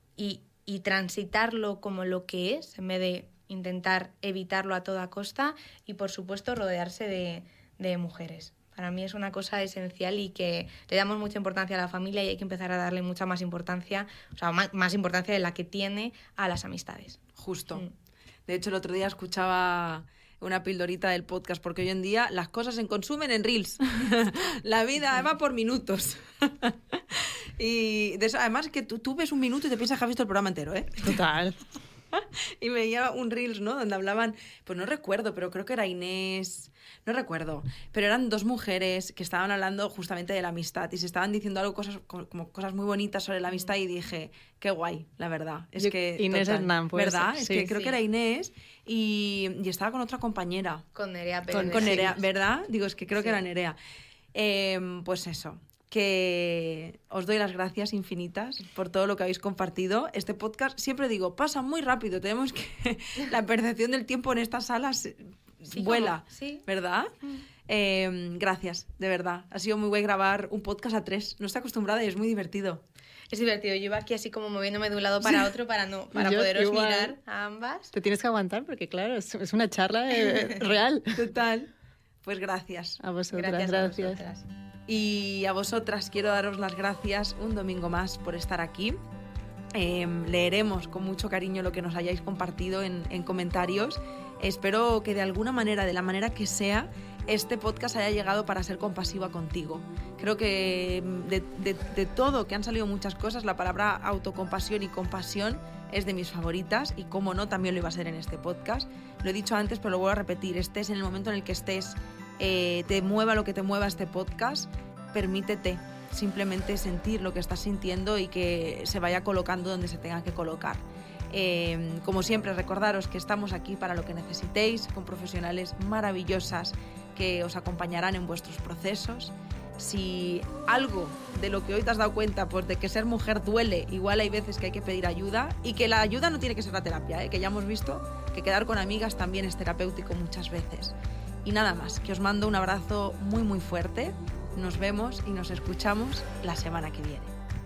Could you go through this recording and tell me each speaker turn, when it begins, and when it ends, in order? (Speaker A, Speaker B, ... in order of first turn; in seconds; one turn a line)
Speaker A: 0.2-17.2
Speaker B: 17.4-17.9
Speaker B: 18.5-31.2
Speaker C: 31.0-31.6
Speaker B: 32.1-50.8
Speaker C: 45.8-47.8
Speaker A: 50.9-52.1
Speaker C: 51.5-52.1
Speaker B: 51.6-53.8
Speaker B: 54.3-67.1
Speaker A: 65.7-66.6
Speaker B: 67.7-72.8
Speaker A: 73.3-77.9
Speaker C: 76.1-77.2
Speaker C: 77.9-81.2
Speaker A: 80.3-80.6
Speaker B: 81.1-81.7
Speaker B: 82.2-83.0
Speaker C: 83.0-84.2
Speaker A: 83.3-84.5
Speaker B: 84.9-89.0
Speaker B: 89.7-147.3